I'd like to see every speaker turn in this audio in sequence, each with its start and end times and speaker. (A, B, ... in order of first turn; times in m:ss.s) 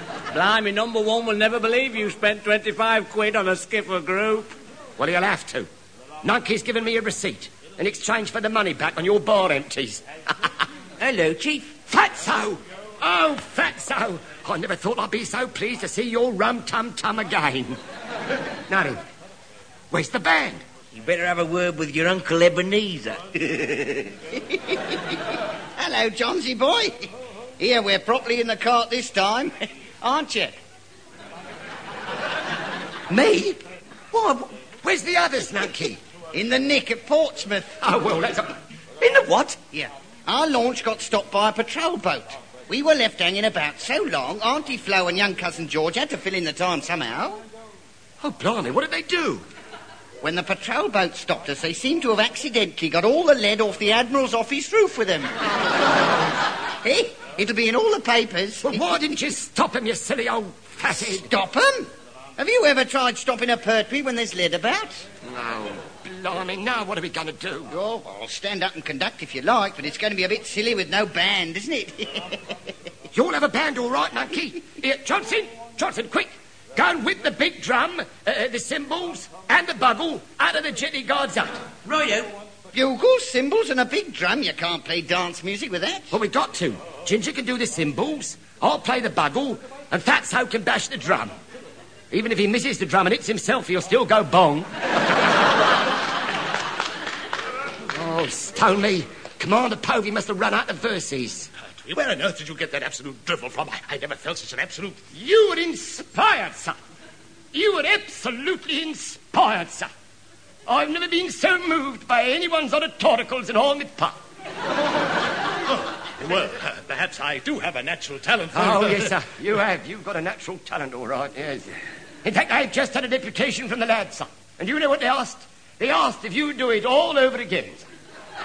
0:00.3-0:04.5 A
0:05.0-0:05.7 B
0:06.2-0:10.0 B
0:11.0-0:11.7 C
0:11.9-0:17.8 B
0:18.7-0:19.0 B
0:19.9-0:20.6 B
0:20.9-0:24.1 C
0:25.8-0:27.1 D
0:27.6-0:30.6 D
0:33.1-0:33.4 D
0:34.8-0:36.0 B
0:36.3-0:37.7 D
0:37.8-0:38.6 B
0:39.6-0:47.4 D
0:48.2-0:49.4 B
0:50.2-0:55.3 D
0:56.8-0:59.2 D
0:58.6-1:01.3 B
1:00.9-1:05.0 D
1:05.2-1:07.7 B
1:07.7-1:12.4 D
1:13.1-1:21.6 B
1:21.8-1:22.3 C
1:22.7-1:26.0 D
1:26.1-1:31.4 B
1:32.1-1:34.7 B
1:37.9-1:41.5 B
1:41.8-1:45.0 E
1:45.1-1:46.8 B
1:47.5-1:49.9 B
1:50.7-1:54.2 B
1:55.7-1:59.1 E
1:58.5-2:01.7 B
2:02.2-2:07.8 B